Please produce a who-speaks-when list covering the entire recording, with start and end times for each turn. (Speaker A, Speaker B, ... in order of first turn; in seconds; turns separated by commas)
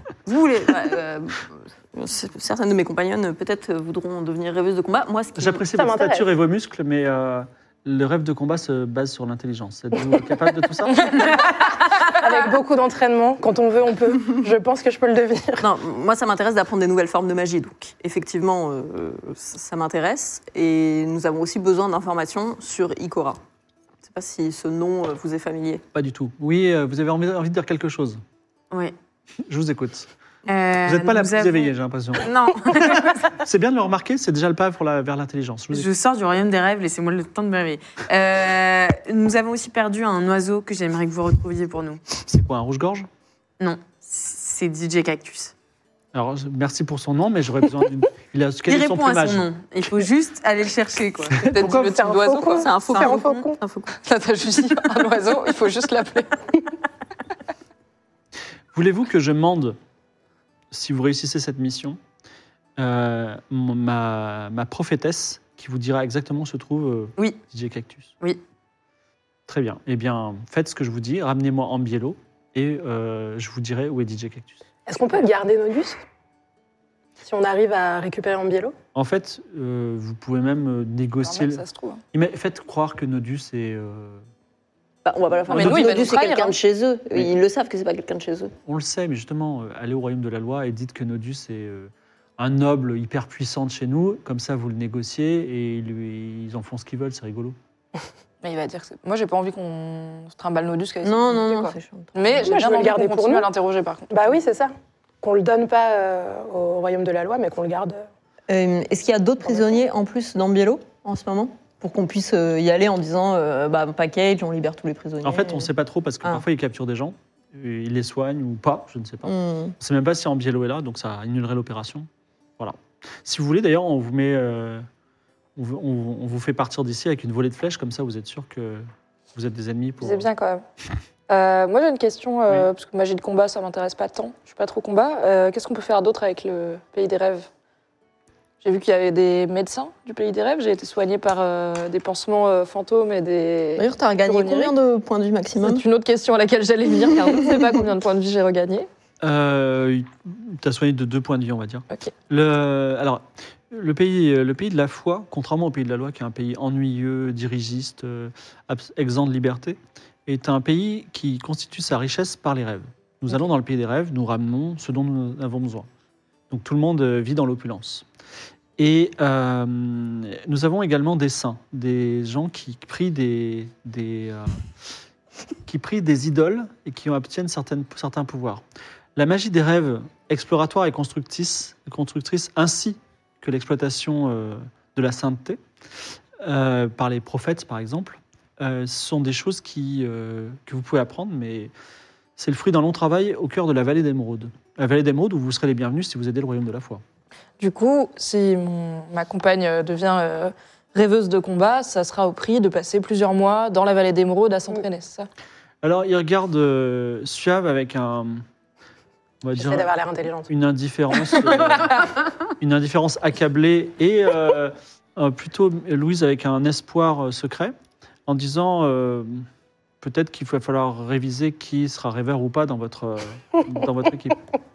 Speaker A: 0.2-5.6, Speaker B: 5.3-11.2, Speaker C: 5.7-6.2, Speaker C: 11.0-15.7, Speaker A: 15.6-23.4, Speaker A: 24.0-25.8, Speaker B: 25.9-28.2, Speaker B: 29.5-30.1, Speaker D: 30.5-33.4, Speaker B: 30.8-35.9, Speaker D: 35.7-42.0, Speaker B: 42.3-43.1, Speaker D: 43.6-45.5, Speaker B: 46.1-49.5, Speaker D: 48.7-51.4, Speaker B: 51.4-51.8, Speaker E: 51.4-53.1, Speaker C: 51.6-53.6, Speaker A: 52.6-53.9, Speaker D: 52.9-53.4, Speaker E: 54.0-56.4, Speaker B: 58.7-59.8, Speaker B: 60.7-62.0, Speaker B: 62.8-68.1, Speaker B: 69.5-74.6, Speaker C: 74.9-76.0, Speaker C: 77.2-78.7, Speaker B: 78.9-84.2, Speaker E: 81.2-82.0, Speaker A: 85.0-88.5, Speaker B: 85.5-86.1, Speaker E: 85.5-86.5, Speaker B: 88.7-97.6, Speaker E: 98.4-104.1, Speaker A: 101.0-102.4, Speaker C: 102.4-103.5, Speaker C: 104.1-104.7, Speaker C: 105.2-108.0, Speaker A: 108.5-115.7, Speaker B: 115.2-124.8, Speaker A: 119.2-119.7, Speaker B: 125.5-130.3, Speaker E: 130.0-130.6, Speaker E: 131.3-137.5, Speaker E: 138.6-144.7, Speaker A: 143.8-145.8, Speaker E: 145.6-148.9, Speaker B: 149.2-165.9, Speaker B: 166.5-168.1, Speaker B: 168.8-174.6, Speaker B: 175.7-178.6, Speaker B: 179.2-185.6, Speaker B: 186.4-191.7, Speaker B: 192.4-197.0, Speaker E: 197.6-205.3, Speaker B: 205.8-208.4, Speaker B: 209.4-209.9, Speaker C: 209.6-210.5, Speaker B: 210.5-212.1, Speaker B: 212.6-219.4, Speaker B: 220.0-224.4